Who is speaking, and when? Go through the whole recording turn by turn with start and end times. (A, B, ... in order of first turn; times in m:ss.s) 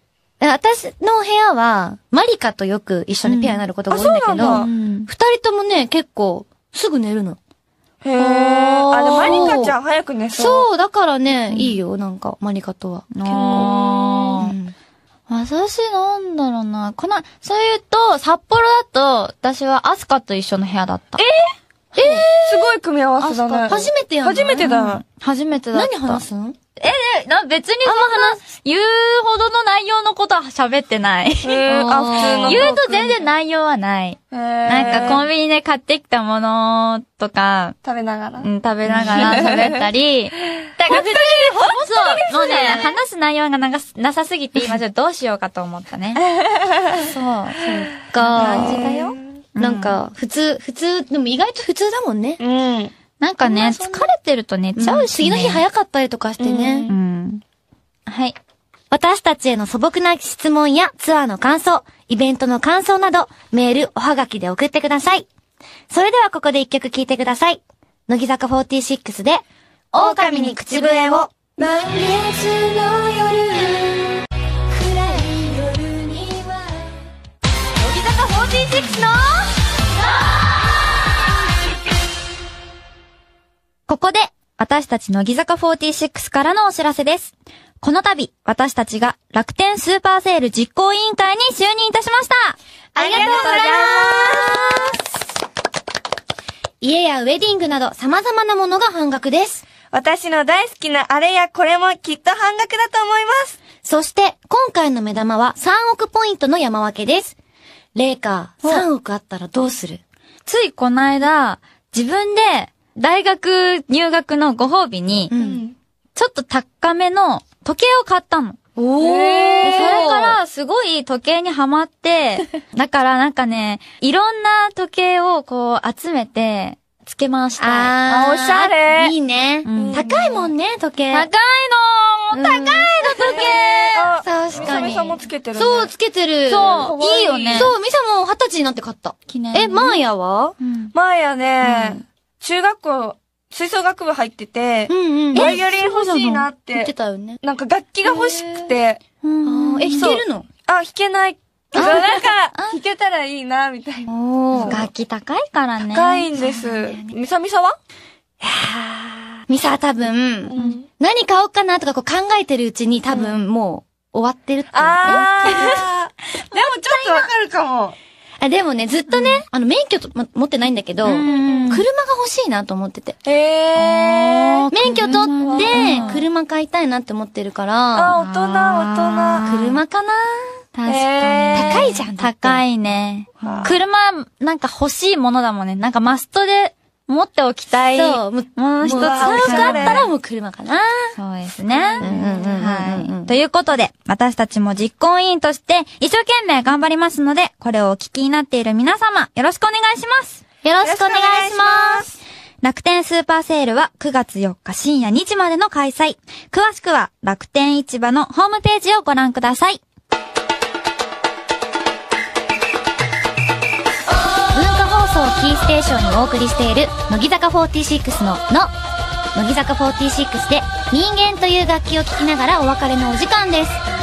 0:00.4-0:07.4 A
0:03.2-0:03.6 B
0:03.9-0:04.7 C
0:04.4-0:05.1 B
0:08.0-0:10.7 C
0:08.2-0:09.8 A
0:10.3-0:14.8 A
0:13.1-0:14.6 B
0:13.3-0:14.3 C
0:15.3-0:21.2 B
0:21.2-0:21.5 C
0:21.9-0:22.4 A
0:22.0-0:22.4 B
0:22.4-0:25.0 C
0:23.2-0:23.8 B
0:23.7-0:24.8 A
0:24.6-0:26.2 B
0:25.7-0:26.6 A
0:26.8-0:37.8 B
0:27.8-0:28.4 A
0:31.4-0:33.2 C
0:31.6-0:32.7 A
0:34.3-0:35.3 C
0:34.7-0:35.2 A
0:37.8-0:39.8 C
0:38.4-0:46.2 B
0:38.9-0:39.4 A
0:40.9-0:42.9 C
0:46.4-0:47.0 C
0:46.9-0:50.0 B
0:48.1-0:52.4 A
0:48.3-0:49.2 C
0:52.4-0:52.9 C
0:53.2-0:55.6 B
0:53.4-0:54.1 A
0:54.8-0:56.9 A
0:56.4-0:57.0 C
0:56.9-0:57.4 B
0:58.1-0:58.4 B
0:58.9-1:05.3 A
1:05.9-1:17.0 A
1:10.0-1:11.3 C
1:17.8-1:19.5 A
1:18.0-1:19.0 C
1:23.9-1:34.1 B
1:33.0-1:35.0 A
1:33.0-1:35.0 C
1:36.8-1:39.6 A
1:39.9-1:43.6 C
1:43.8-1:47.4 A
1:48.0-1:50.0 A
1:50.5-1:55.3 B
1:55.3-1:55.6 A
1:55.3-1:55.8 C
1:56.2-1:58.6 B
1:58.8-2:00.4 A
1:59.0-2:00.2 C
1:59.6-2:08.0 B
2:07.6-2:11.3 A
2:08.1-2:09.2 C
2:09.6-2:10.1 B
2:09.7-2:10.5 C
2:11.1-2:14.1 B
2:12.3-2:13.6 A
2:13.2-2:15.9 C
2:14.2-2:16.9 A
2:16.5-2:17.7 B
2:16.6-2:17.7 C
2:17.5-2:20.6 A
2:19.3-2:20.0 B
2:20.6-2:20.9 B
2:20.9-2:29.0 C
2:21.6-2:22.0 A
2:24.9-2:25.7 A
2:25.3-2:26.5 B
2:26.7-2:27.4 A
2:28.1-2:28.6 A
2:29.2-2:30.1 B
2:29.4-2:30.5 A
2:29.9-2:34.8 C
2:31.7-2:32.3 A
2:31.8-2:32.8 B
2:34.1-2:34.9 A
2:34.6-2:37.1 B
2:35.9-2:37.8 C
2:36.4-2:37.0 A
2:38.4-2:38.8 A
2:39.5-2:45.8 A
2:40.5-2:40.9 C
2:44.7-2:48.0 C
2:45.1-2:45.7 B
2:46.5-2:47.3 B
2:48.4-2:53.2 A
2:51.0-2:51.8 B
2:51.2-2:51.8 C
2:53.2-2:54.7 C
2:53.8-2:56.2 B
2:54.7-2:58.2 A
2:55.4-2:56.2 C
2:57.9-2:59.6 C
2:58.2-2:59.8 B
2:59.4-3:00.6 A
3:00.8-3:10.1 B
3:00.9-3:02.0 C
3:01.6-3:02.6 A
3:03.4-3:03.7 A
3:03.4-3:03.7 C
3:07.9-3:11.2 A
3:08.9-3:10.1 C
3:11.2-3:20.4 B
3:11.7-3:12.6 C
3:12.0-3:13.4 A
3:20.6-3:22.1 A
3:20.8-3:22.1 C
3:22.6-3:29.8 B
3:34.5-3:38.7 A
3:39.4-3:43.8 A